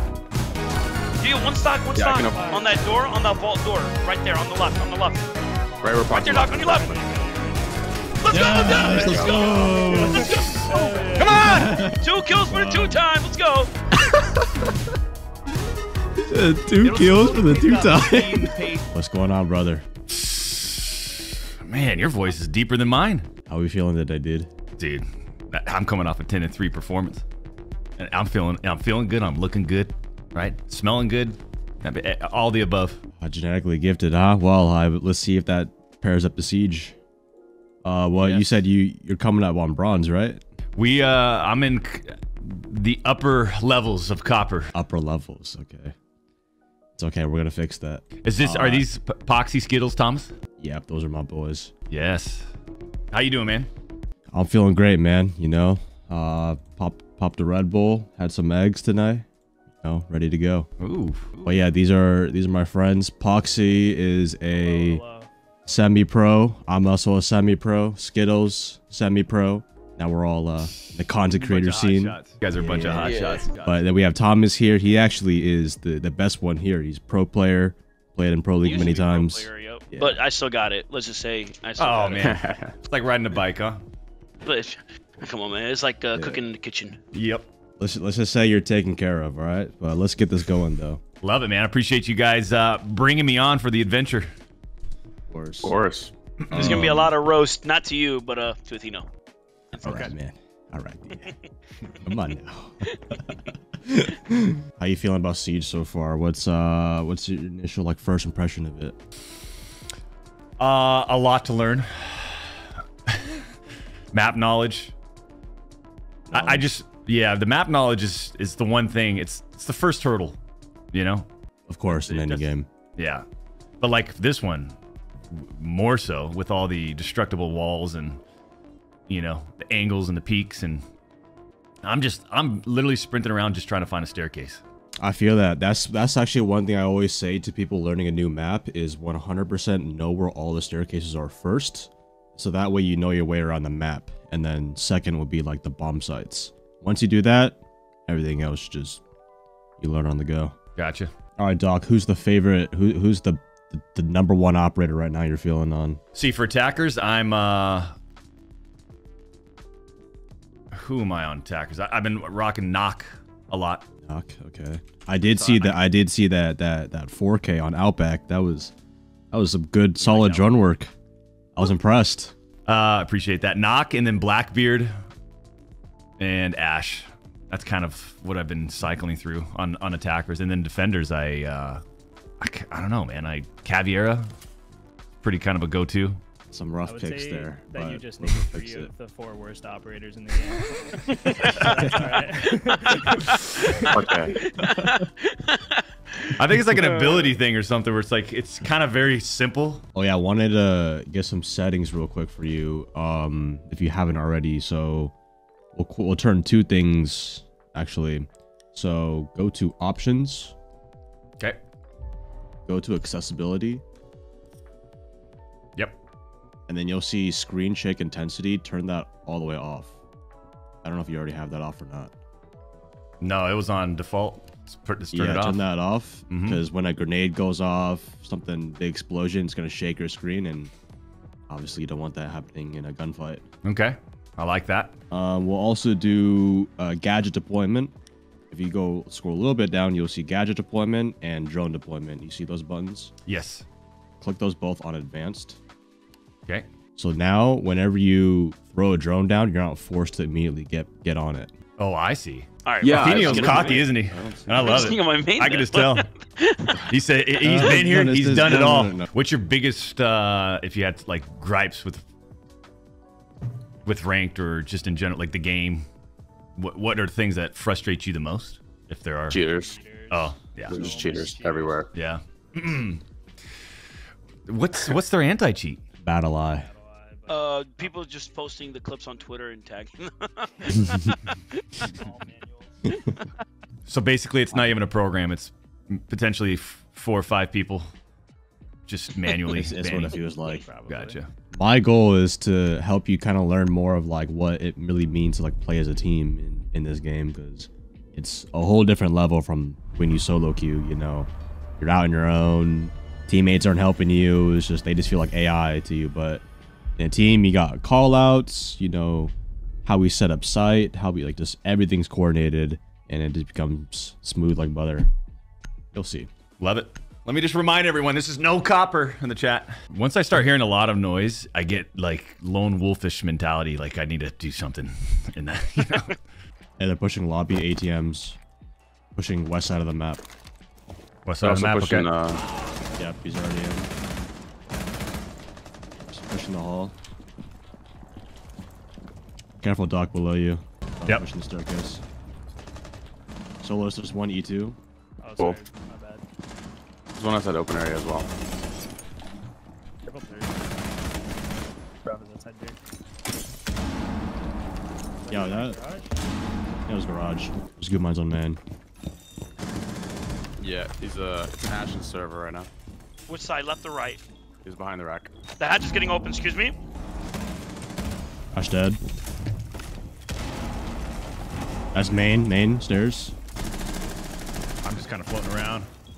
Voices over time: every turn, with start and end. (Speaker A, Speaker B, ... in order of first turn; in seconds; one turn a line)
Speaker A: 1.2-5.3
Speaker B: 1.9-2.5
Speaker C: 2.2-3.1
Speaker B: 5.8-7.0
Speaker A: 6.1-7.0
Speaker C: 6.2-11.5
Speaker A: 8.2-9.6
Speaker D: 8.3-10.6
Speaker B: 8.9-9.9
Speaker E: 10.2-10.6
Speaker A: 10.7-11.1
Speaker E: 11.2-11.8
Speaker D: 11.2-13.0
Speaker A: 11.9-13.7
Speaker D: 14.0-14.9
Speaker D: 16.2-19.9
Speaker E: 16.8-18.9
Speaker E: 20.1-23.3
Speaker D: 23.5-24.5
Speaker E: 24.8-27.2
Speaker E: 28.0-33.0
Speaker D: 33.2-37.0
Speaker D: 37.8-40.4
Speaker E: 38.2-38.5
Speaker E: 40.8-44.7
Speaker D: 44.7-46.0
Speaker D: 47.0-48.9
Speaker E: 48.2-50.3
Speaker D: 50.6-51.7
Speaker E: 51.9-52.5
Speaker E: 53.1-53.7
Speaker D: 54.3-59.3
Speaker D: 59.8-60.7
Speaker E: 60.8-61.6
Speaker D: 61.4-65.0
Speaker C: 64.5-65.3
Speaker D: 65.7-80.2
Speaker E: 70.7-73.8
Speaker B: 73.0-73.4
Speaker A: 78.6-82.3
Speaker E: 81.8-83.8
Speaker B: 82.2-82.8
Speaker A: 84.5-87.0
Speaker D: 86.2-86.5
Speaker E: 87.1-87.5
Speaker D: 87.8-91.0
Speaker E: 91.2-94.3
Speaker D: 95.3-95.8
Speaker B: 95.6-96.1
Speaker E: 96.5-96.9
Speaker D: 96.5-97.1
Speaker A: 96.5-99.1
Speaker A: 99.7-100.1
Speaker D: 99.8-101.3
Speaker D: 102.0-109.0
Speaker E: 110.6-113.4
Speaker E: 114.1-114.9
Speaker C: 116.3-116.6
Speaker D: 116.3-116.7
Speaker E: 116.3-120.4
Speaker E: 120.9-121.3
Speaker D: 121.7-122.7
Speaker E: 123.0-123.2
Speaker E: 123.8-124.8
Speaker E: 125.3-128.2
Speaker E: 129.1-130.8
Speaker E: 131.8-134.6
Speaker D: 135.0-149.0
Speaker D: 149.8-150.6
Speaker E: 150.8-151.1
Speaker D: 151.4-156.0
Speaker E: 156.2-158.0
Speaker E: 160.7-163.8
Speaker D: 164.1-168.7
Speaker E: 165.3-165.8
Speaker D: 169.3-170.9
Speaker E: 170.0-170.6
Speaker D: 171.6-172.3
Speaker E: 172.7-174.9
Speaker E: 176.2-181.8
Speaker E: 182.4-184.3
Speaker E: 185.2-186.2
Speaker D: 186.5-188.9
Speaker C: 186.9-193.2
Speaker A: 191.4-191.8
Speaker D: 191.5-192.2
Speaker A: 192.4-197.3
Speaker B: 193.9-194.4
Speaker D: 194.7-195.1
Speaker E: 196.4-199.8
Speaker D: 199.9-205.1
Speaker D: 205.7-210.5
Speaker D: 212.7-213.8
Speaker D: 216.7-220.0
Speaker D: 220.8-222.1
Speaker E: 223.2-225.6
Speaker D: 225.1-230.7
Speaker E: 226.3-226.6
Speaker D: 231.5-233.4
Speaker E: 233.6-234.9
Speaker D: 235.1-237.9
Speaker D: 238.5-243.1
Speaker E: 243.3-243.7
Speaker D: 244.2-245.6
Speaker D: 247.0-251.5
Speaker E: 251.8-256.1
Speaker A: 252.7-253.8
Speaker B: 252.8-253.9
Speaker D: 252.9-255.0
Speaker A: 254.6-256.8
Speaker E: 256.9-262.0
Speaker D: 257.4-259.1
Speaker E: 263.9-265.9
Speaker E: 266.6-269.4
Speaker B: 269.3-269.8
Speaker C: 269.4-271.9
Speaker E: 270.1-271.1
Speaker B: 270.7-271.9
Speaker E: 271.9-273.0
Speaker E: 274.5-275.8
Speaker D: 276.0-276.7
Speaker C: 276.5-278.0
Speaker A: 277.3-281.9
Speaker C: 281.8-282.9
Speaker E: 283.9-287.9
Speaker E: 288.9-290.2
Speaker D: 289.5-290.6
Speaker C: 290.4-291.2
Speaker E: 290.9-291.3
Speaker D: 291.5-306.4
Speaker D: 307.0-309.3
Speaker D: 309.9-315.1
Speaker D: 315.9-316.3
Speaker E: 316.6-326.2
Speaker D: 326.8-328.4
Speaker D: 329.1-330.2
Speaker E: 331.3-332.1
Speaker B: 331.4-332.4
Speaker D: 333.0-333.9
Speaker D: 336.1-336.9
Speaker D: 339.6-342.0
Speaker D: 343.6-344.8
Speaker C: 345.2-346.2
Speaker B: 347.2-348.3
Speaker C: 350.0-351.0
Speaker C: 352.0-352.8
Speaker C: 355.2-356.1
Speaker D: 355.3-355.8
Speaker D: 356.9-358.6
Speaker B: 360.6-362.7
Speaker A: 363.3-364.2
Speaker B: 364.6-365.3
Speaker A: 365.6-366.8
Speaker D: 368.5-369.0
Speaker D: 371.9-373.4
Speaker E: 374.8-375.9